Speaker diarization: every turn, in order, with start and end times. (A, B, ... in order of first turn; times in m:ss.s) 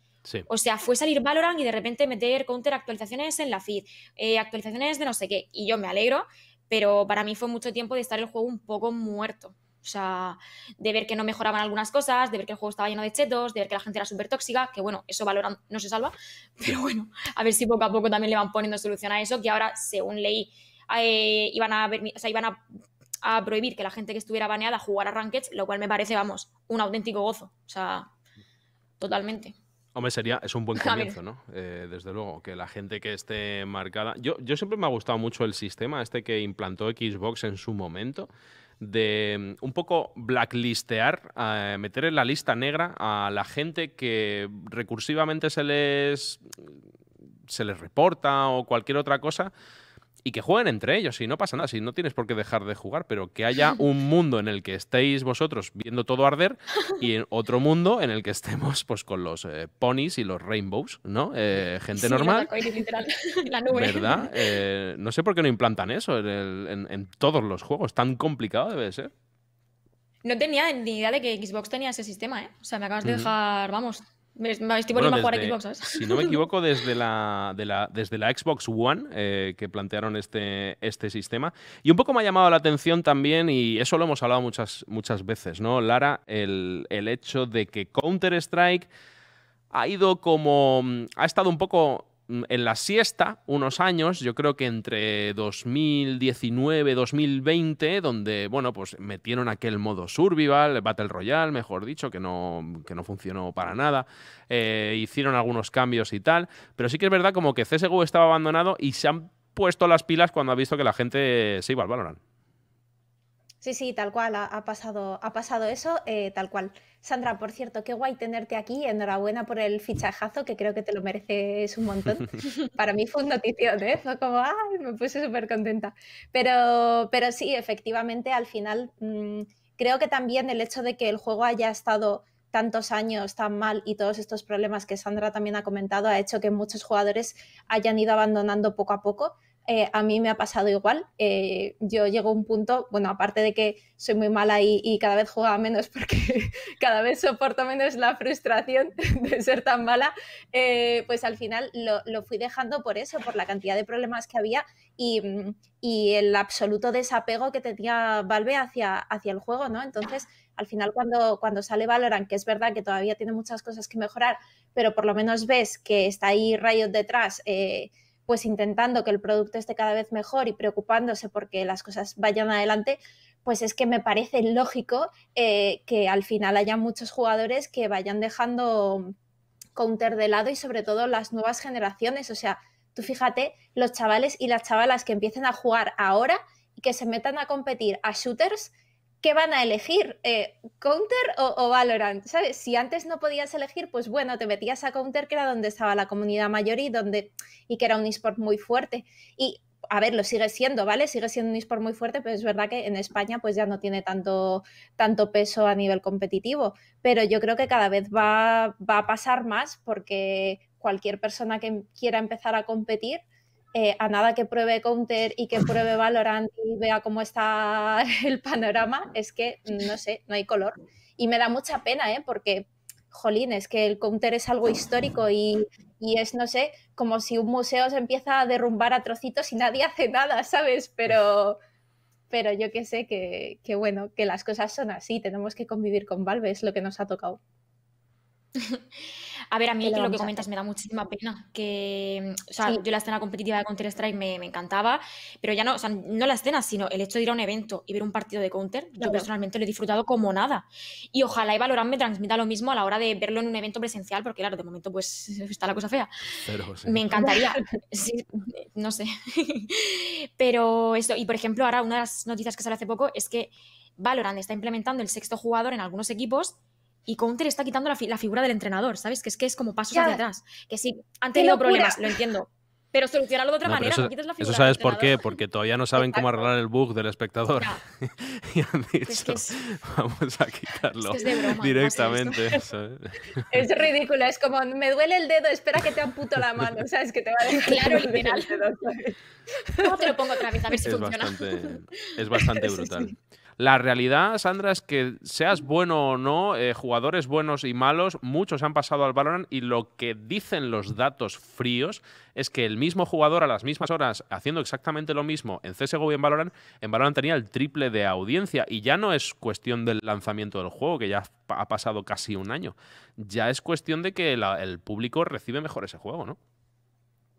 0:00.5-0:22.6 A
0:23.2-0:28.1 A
0:29.0-0:29.6 A
0:30.0-0:38.3 B
0:30.8-0:31.2 A
0:38.8-0:46.8 B
0:47.5-0:49.5 B
0:50.2-1:02.5 B
1:02.0-1:04.6 A
1:03.7-1:09.1 B
1:10.2-1:16.4 A
1:13.0-1:13.3 B
1:14.9-1:28.9 B
1:29.7-1:52.2 B
1:53.6-2:59.2 C
2:59.8-3:08.7 C
3:09.2-3:33.2 C
3:33.8-3:51.6 C
3:52.3-3:57.4 C
3:58.6-3:58.8 A
3:59.5-4:26.6 A
3:59.8-4:00.4 C
4:09.0-4:09.3 C
4:16.4-4:17.1 B
4:27.1-4:35.2 A
4:29.9-4:30.2 C
4:31.4-4:32.2 C
4:33.7-4:43.7 B
4:36.0-4:36.5 C
4:39.1-4:39.6 A
4:41.0-4:42.5 A
4:43.5-4:50.1 C
4:47.5-4:48.6 A
4:49.8-4:51.5 A
4:50.8-5:16.4 B
4:52.5-4:53.0 C